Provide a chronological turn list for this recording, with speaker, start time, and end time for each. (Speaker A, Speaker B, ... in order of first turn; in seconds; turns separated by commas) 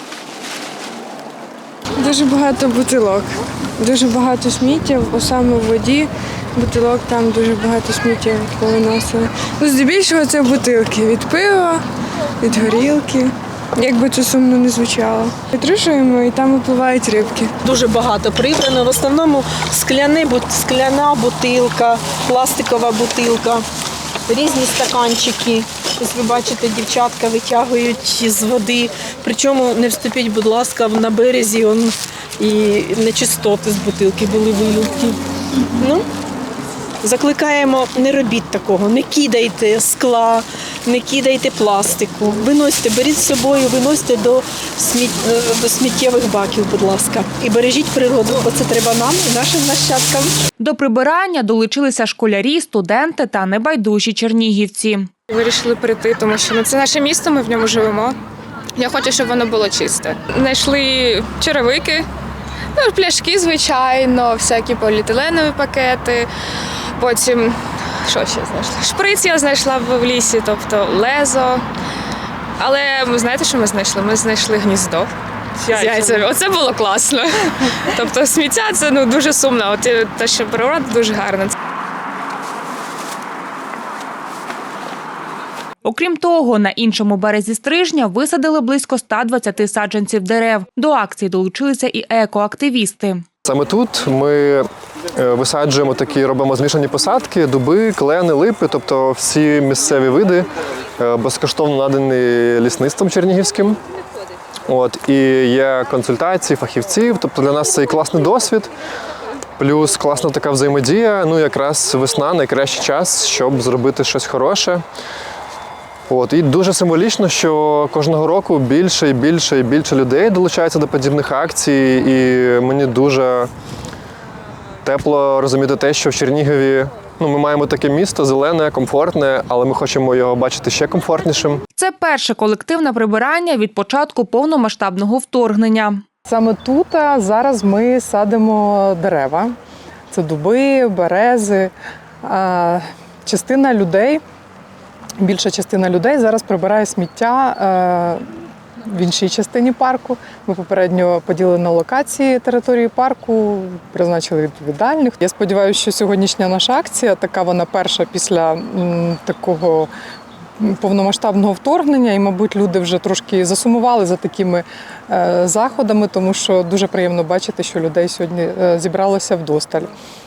Speaker A: 2.0-11.8, Speaker A: 12.4-17.5, Speaker B: 17.6-23.7, Speaker B: 24.3-35.2, Speaker B: 35.8-36.1, Speaker B: 37.0-50.4, Speaker C: 50.6-55.1, Speaker D: 55.3-58.2, Speaker D: 58.8-62.1, Speaker D: 62.8-66.3, Speaker D: 67.0-71.7, Speaker D: 72.6-81.5, Speaker C: 85.8-93.2, Speaker E: 93.4-103.8, Speaker E: 104.7-108.7, Speaker E: 109.6-114.8, Speaker E: 116.1-123.5, Speaker E: 124.8-131.6, Speaker C: 131.8-136.0, Speaker F: 136.3-139.5, Speaker F: 140.1-141.7, Speaker F: 142.2-144.2, Speaker F: 145.2-148.2, Speaker F: 148.8-159.9, Speaker F: 160.6-169.9